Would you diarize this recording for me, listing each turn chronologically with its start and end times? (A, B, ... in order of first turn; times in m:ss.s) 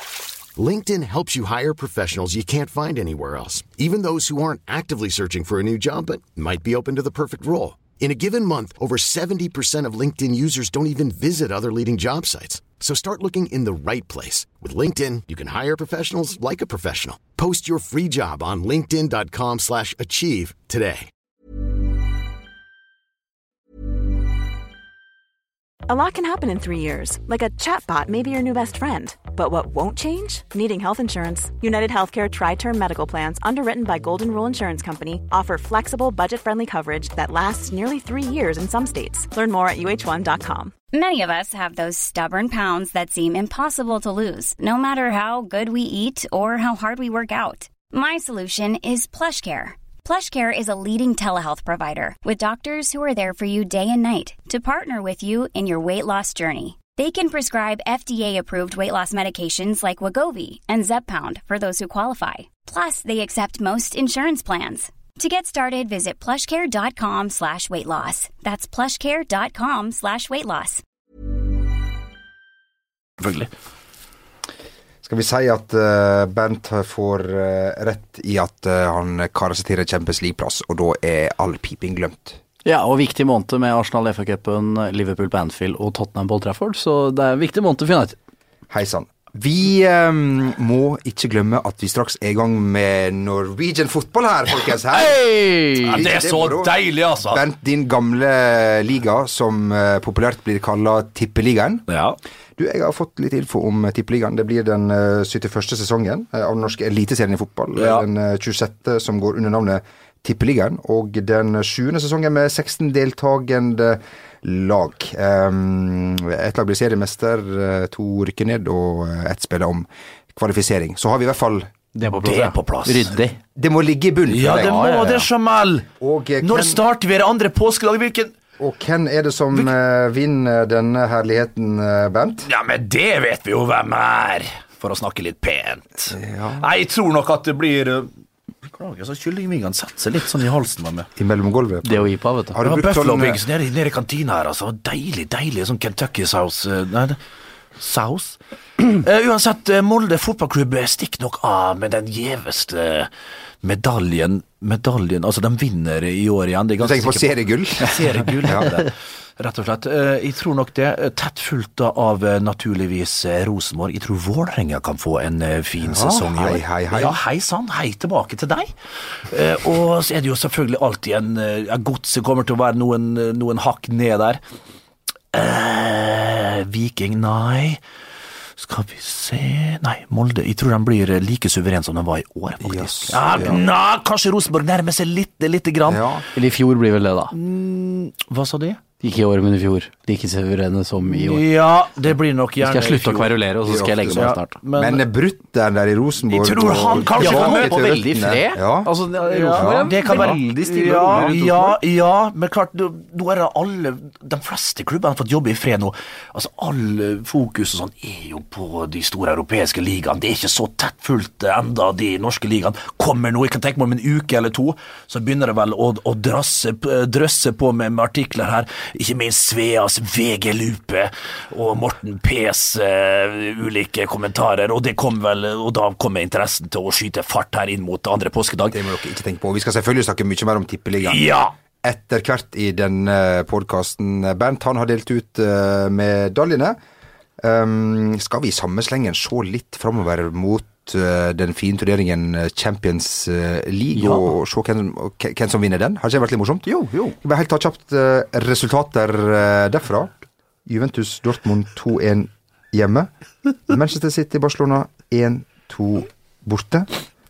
0:00.6-0:21.1 A
0:25.9-0:40.7 B
0:40.9-1:10.8 C
1:13.2-1:13.5 D
1:15.0-1:22.4 E
1:22.6-1:28.2 F
1:28.7-1:35.2 E
1:34.9-1:36.0 F
1:35.8-1:36.7 E
1:35.8-1:37.4 D
1:37.2-1:41.8 E
1:41.9-1:42.2 D
1:42.6-2:01.7 E
1:47.7-1:48.0 D
2:01.9-2:03.4 F
2:02.2-2:03.1 D
2:03.5-2:05.3 E
2:04.3-2:05.9 D
2:04.5-2:05.1 F
2:06.0-2:06.8 E
2:06.4-2:08.3 D
2:08.6-2:12.5 E
2:12.4-2:18.1 D
2:16.1-2:16.7 E
2:18.6-2:21.1 D
2:21.2-2:23.4 E
2:21.8-2:22.6 F
2:22.6-2:27.2 D
2:27.8-2:33.1 D
2:33.6-2:54.4 D
2:36.8-2:38.7 E
2:45.8-2:47.2 E
2:55.3-2:57.8 D
2:58.6-3:06.2 D
3:02.6-3:03.6 E
3:05.9-3:06.2 E
3:06.3-3:07.3 F
3:07.3-3:08.8 D
3:09.0-3:11.4 F
3:11.0-3:13.3 D
3:12.6-3:14.5 F
3:13.6-3:18.9 E
3:14.1-3:15.0 D
3:16.3-3:18.1 D
3:17.1-3:21.8 F
3:19.2-3:48.8 D
3:19.6-3:20.3 E
3:48.7-3:51.2 E
3:51.0-3:51.5 D
3:51.8-3:56.8 E
3:57.4-4:10.1 E
4:03.9-4:04.3 F
4:06.8-4:07.1 F
4:10.6-4:13.1 E
4:13.7-4:16.9 E